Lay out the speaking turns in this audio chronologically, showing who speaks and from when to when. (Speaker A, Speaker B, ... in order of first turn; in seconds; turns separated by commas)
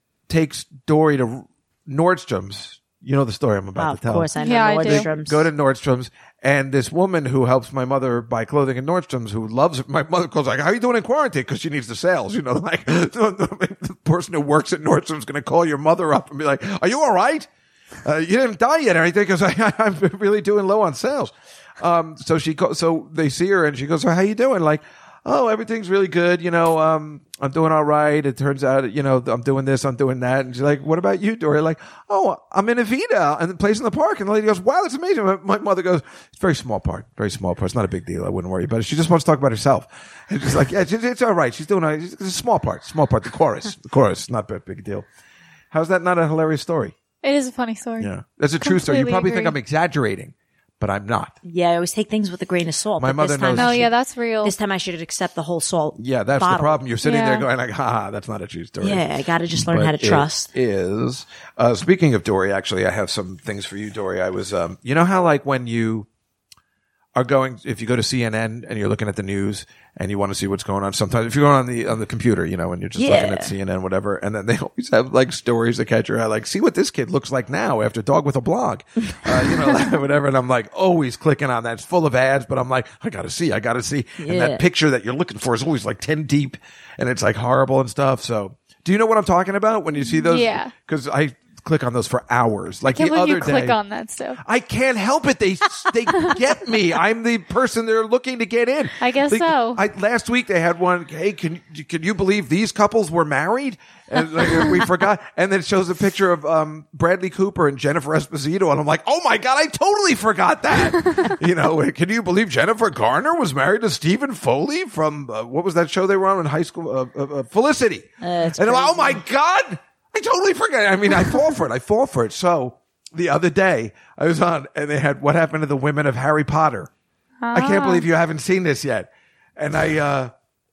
Speaker A: 0.3-4.3, Speaker B: 3.8-5.5, Speaker C: 4.4-5.1, Speaker A: 4.8-17.5, Speaker A: 18.0-45.1, Speaker A: 45.7-47.0, Speaker C: 47.2-48.1, Speaker A: 48.0-51.4, Speaker C: 48.6-49.6, Speaker B: 51.5-53.9, Speaker A: 53.0-53.9, Speaker C: 53.5-54.5, Speaker B: 54.4-56.8, Speaker A: 56.0-66.1, Speaker C: 57.0-57.5, Speaker B: 58.8-60.5, Speaker A: 67.2-93.8, Speaker B: 73.0-73.5, Speaker B: 84.2-84.6, Speaker C: 90.2-90.7, Speaker C: 93.0-94.4, Speaker A: 94.4-126.9, Speaker C: 99.0-99.8, Speaker B: 118.2-119.2, Speaker C: 127.4-128.1, Speaker A: 127.5-130.3